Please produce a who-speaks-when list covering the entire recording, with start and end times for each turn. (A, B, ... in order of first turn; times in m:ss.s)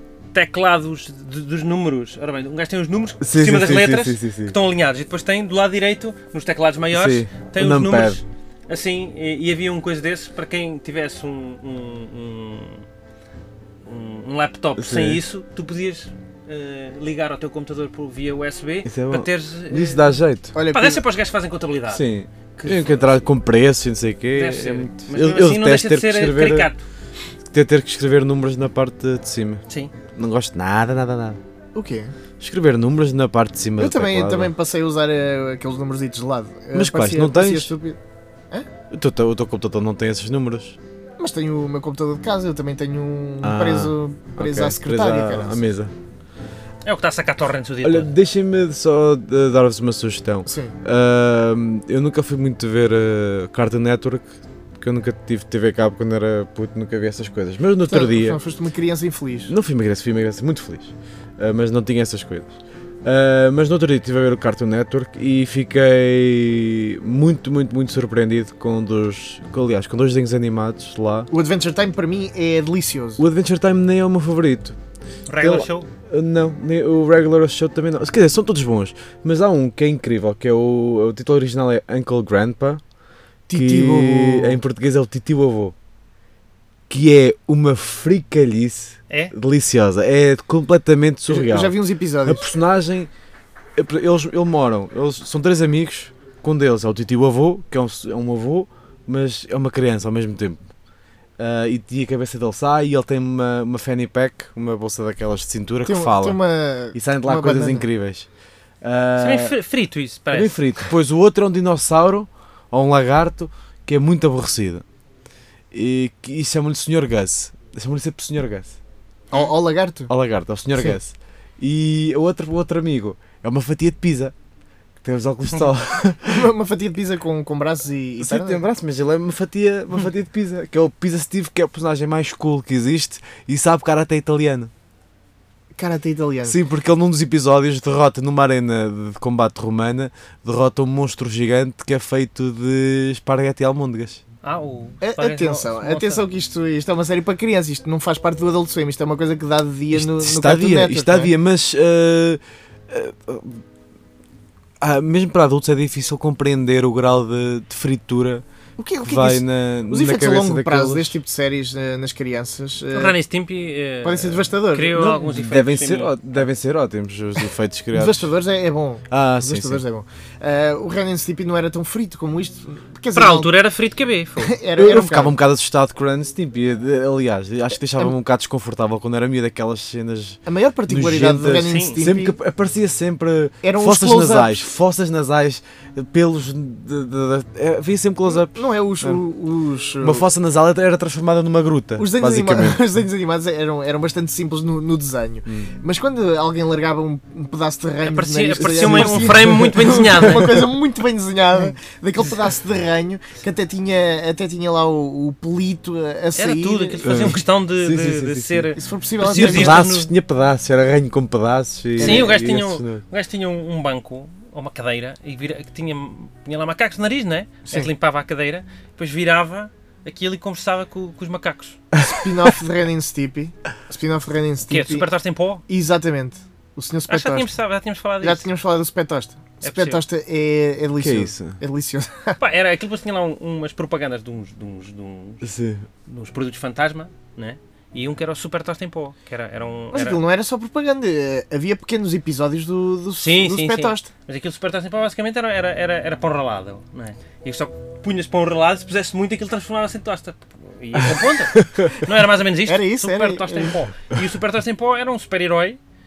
0:00.3-0:12.8 A
0:03.2-0:04.6 B
0:06.9-0:08.2 B
0:13.8-0:20.2 A
0:14.8-0:15.2 B
0:18.8-0:20.6 B
0:20.6-0:21.0 C
0:20.7-0:23.2 A
0:21.9-0:26.7 B
0:24.3-0:26.8 A
0:27.5-0:29.6 B
0:30.1-0:31.4 B
0:31.8-0:32.1 C
0:32.4-0:34.5 B
0:33.8-0:38.0 C
0:36.7-0:37.8 B
0:38.9-0:40.8 B
0:41.2-0:45.6 C
0:43.4-0:45.9 B
0:46.8-0:48.1 A
0:47.8-0:58.4 B
0:50.4-0:50.8 C
0:57.9-0:59.5 C
0:59.5-1:11.3 B
1:11.3-1:13.2 C
1:13.2-1:14.8 B
1:15.3-1:15.9 A
1:15.4-1:22.8 B
1:23.5-1:24.6 C
1:23.5-1:25.8 B
1:26.9-1:33.1 B
1:31.3-1:32.5 C
1:33.8-1:40.6 B
1:41.4-1:46.4 B
1:45.8-1:47.9 C
1:46.9-1:48.3 B
1:48.8-1:49.6 B
1:49.2-1:50.6 A
1:50.3-1:54.8 B
1:55.7-1:58.8 B
1:59.3-2:00.1 C
2:00.1-2:04.3 B
2:05.0-2:06.5 B
2:06.3-2:08.6 C
2:08.2-2:14.7 B
2:15.8-2:16.6 C
2:16.4-2:24.2 B
2:24.4-2:26.2 A
2:25.0-2:31.3 C
2:29.9-2:33.6 B
2:34.8-2:38.4 B
2:38.8-2:43.2 C
2:39.0-2:41.2 B
2:42.9-2:46.4 A
2:44.0-2:45.4 C
2:45.3-2:48.3 B
2:47.9-2:53.5 C
2:49.1-2:49.8 B
2:53.1-2:54.6 A
2:54.4-2:55.4 C
2:54.8-3:09.2 B
3:00.4-3:02.4 C
3:01.6-3:02.0 A
3:03.6-3:04.6 C
3:08.3-3:10.3 C
3:10.0-3:12.8 B
3:12.0-3:27.4 C
3:15.5-3:15.7 B
3:18.1-3:20.5 A
3:18.6-3:20.6 B
3:26.4-3:30.1 A
3:27.0-3:33.0 B
3:28.8-3:29.8 C
3:32.0-3:32.4 C
3:32.0-3:41.8 A
3:41.9-3:42.5 B
3:42.0-3:45.1 C
3:44.7-3:45.6 A
3:45.7-3:47.5 C
3:47.1-3:48.5 A
3:48.2-3:52.4 C
3:49.6-3:50.0 A
3:51.0-3:51.6 B
3:52.4-3:55.5 A
3:55.4-3:55.9 B
3:56.1-4:00.2 A
3:59.9-4:04.1 C
4:03.2-4:15.8 A
4:11.5-4:11.9 B
4:12.7-4:13.8 C